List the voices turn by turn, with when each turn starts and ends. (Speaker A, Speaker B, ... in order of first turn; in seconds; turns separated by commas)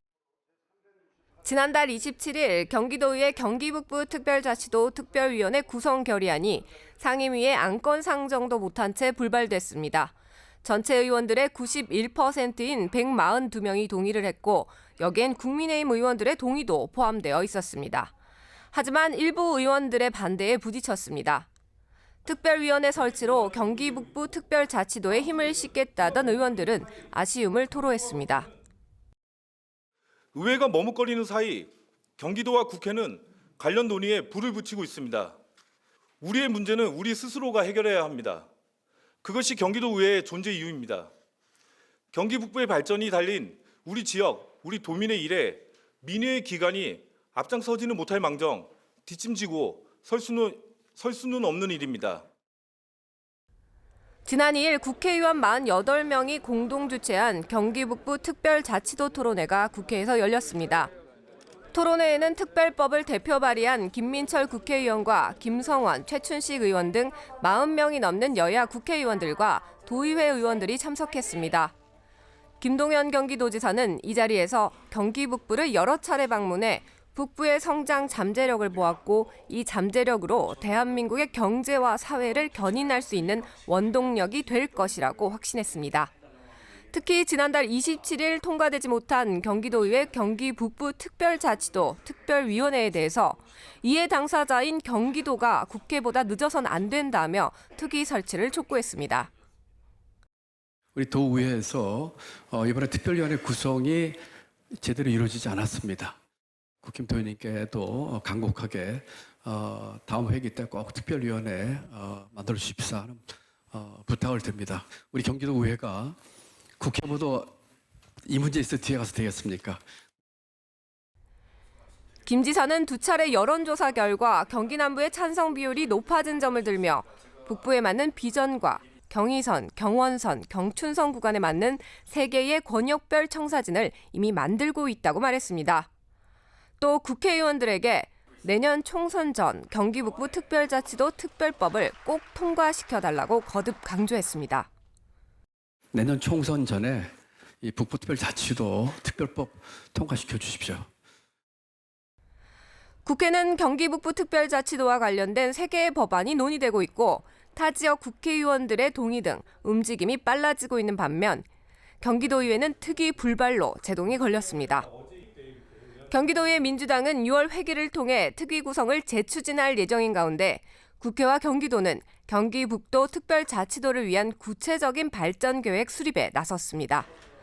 Speaker A: 1.4-10.1, Speaker A: 10.6-18.1, Speaker A: 18.7-21.5, Speaker A: 22.2-28.5, Speaker B: 30.3-35.4, Speaker B: 36.2-38.5, Speaker B: 39.2-41.1, Speaker B: 42.1-52.2, Speaker A: 54.3-60.9, Speaker A: 61.7-71.8, Speaker A: 72.6-86.1, Speaker A: 86.9-99.3, Speaker C: 101.0-104.2, Speaker C: 104.7-106.2, Speaker C: 106.8-116.2, Speaker C: 116.8-117.5, Speaker C: 118.3-119.8, Speaker A: 122.2-135.9, Speaker A: 136.8-144.7, Speaker C: 145.9-150.9, Speaker A: 153.1-161.5, Speaker A: 162.0-164.9, Speaker A: 166.1-177.1